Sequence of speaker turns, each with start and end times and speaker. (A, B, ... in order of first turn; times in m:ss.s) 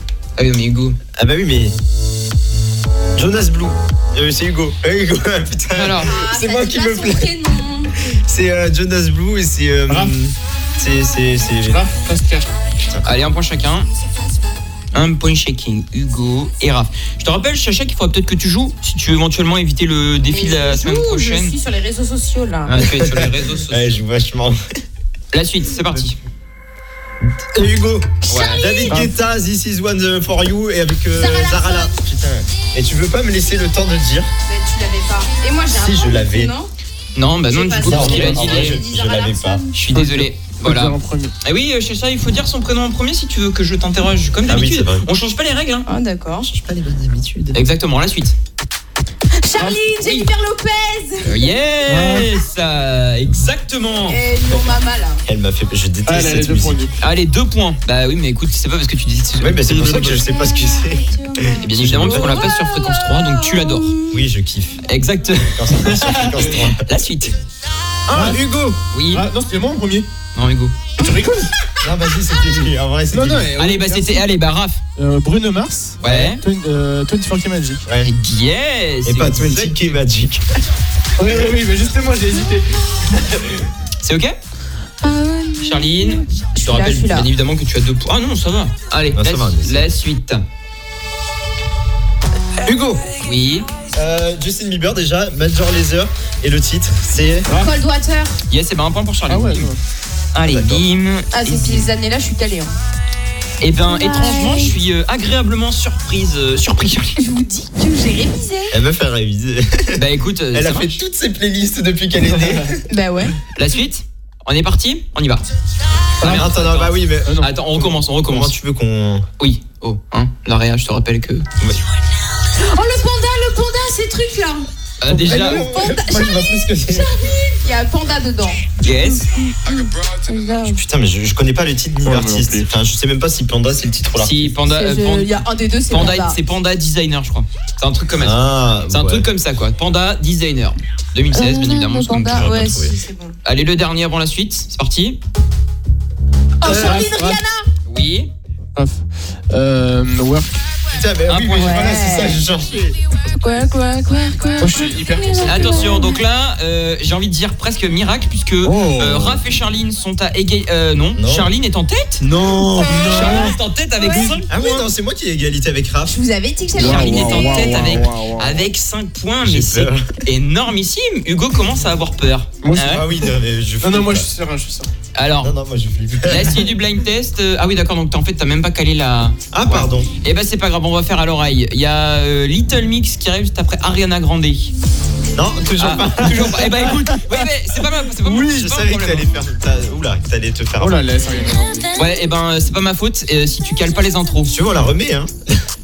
0:00.4-0:01.0 A
0:01.2-0:01.8 B
0:03.1-0:07.3 B
0:05.7-0:06.1 A
0:06.0-0:07.9 C
0:08.1-0:11.8 B
0:09.9-0:10.1 D
0:11.6-0:12.5 D
0:13.0-0:13.9 A
0:14.9-0:21.5 A
0:20.3-0:22.8 C
0:22.6-0:24.0 A
0:22.8-0:24.6 B
0:25.3-0:26.2 A
0:27.2-0:34.3 B
0:28.3-0:28.8 A
0:28.3-0:28.9 C
0:31.2-0:31.9 C
0:34.5-0:36.7 C
0:35.7-0:36.5 B
0:37.1-0:38.8 A
0:37.5-0:39.7 C
0:37.8-0:39.6 B
0:39.7-0:45.9 A
0:39.9-0:41.3 D
0:44.5-0:45.1 B
0:45.9-0:46.5 C
0:46.4-0:47.6 B
0:47.5-0:48.4 A
0:49.3-0:51.6 C
0:50.0-0:50.3 A
0:51.2-0:54.2 A
0:51.9-0:52.3 D
0:54.0-0:55.2 C
0:55.2-0:56.8 B
0:56.0-0:56.9 D
0:57.0-1:00.2 A
0:59.4-1:02.5 B
1:00.2-1:04.2 C
1:01.6-1:03.9 A
1:04.1-1:04.8 B
1:04.8-1:05.8 A
1:05.5-1:06.8 B
1:05.9-1:06.4 D
1:06.8-1:07.4 A
1:08.1-1:08.8 B
1:08.1-1:08.5 D
1:08.9-1:09.3 A
1:09.1-1:10.1 D
1:10.3-1:10.8 A
1:11.0-1:11.5 D
1:11.8-1:13.5 B
1:13.1-1:14.2 D
1:13.6-1:14.8 A
1:15.0-1:17.8 D
1:16.0-1:16.4 A
1:17.8-1:18.1 B
1:18.0-1:19.9 A
1:19.0-1:20.4 B
1:21.2-1:23.7 D
1:24.0-1:24.4 A
1:25.0-1:27.3 C
1:25.6-1:30.4 A
1:29.1-1:29.9 B
1:32.6-1:33.0 B
1:33.2-1:33.7 A
1:33.9-1:37.5 B
1:37.5-1:38.4 C
1:38.5-1:39.7 A
1:39.3-1:39.8 D
1:40.3-1:41.9 A
1:40.4-1:40.8 B
1:41.3-1:42.8 C
1:43.6-1:47.2 A
1:43.8-1:44.7 C
1:47.2-1:48.8 C
1:48.7-1:52.8 B
1:49.9-1:51.0 A
1:52.9-1:53.3 C
1:53.5-1:55.4 A
1:56.2-1:58.5 A
1:56.2-1:59.3 B
1:57.2-1:57.5 D
1:59.4-2:01.5 A
2:02.5-2:04.7 C
2:05.0-2:05.7 A
2:05.1-2:07.1 B
2:05.3-2:08.7 C
2:08.8-2:09.3 A
2:09.2-2:10.8 C
2:10.6-2:14.5 B
2:12.0-2:12.7 D
2:14.2-2:22.8 A
2:14.7-2:16.4 C
2:18.2-2:19.2 B
2:21.3-2:23.4 C
2:22.3-2:22.9 B
2:23.4-2:25.2 A
2:26.6-2:27.6 C
2:26.6-2:27.1 B
2:26.6-2:27.4 D
2:27.9-2:28.3 A
2:28.7-2:30.6 D
2:30.9-2:33.0 B
2:31.3-2:31.9 A
2:31.6-2:32.4 C
2:33.3-2:36.2 C
2:34.6-2:35.9 D
2:35.4-2:42.2 A
2:38.6-2:39.4 D
2:41.2-2:41.5 B
2:42.2-2:43.5 B
2:42.7-2:44.8 C
2:42.8-2:43.5 D
2:42.9-2:44.5 A
2:44.5-2:46.2 B
2:46.0-2:47.9 C
2:46.8-2:48.7 D
2:46.8-2:53.0 A
2:49.4-2:50.1 B
2:52.6-2:53.0 D
2:52.7-2:54.3 B
2:53.8-2:54.9 D
2:55.1-2:55.5 A
2:55.4-2:56.7 B
2:56.3-3:04.7 A
2:59.5-3:00.1 B
3:05.3-3:07.0 B
3:05.8-3:09.3 A
3:08.2-3:11.1 B
3:10.8-3:11.9 D
3:11.9-3:14.6 A
3:14.5-3:15.6 B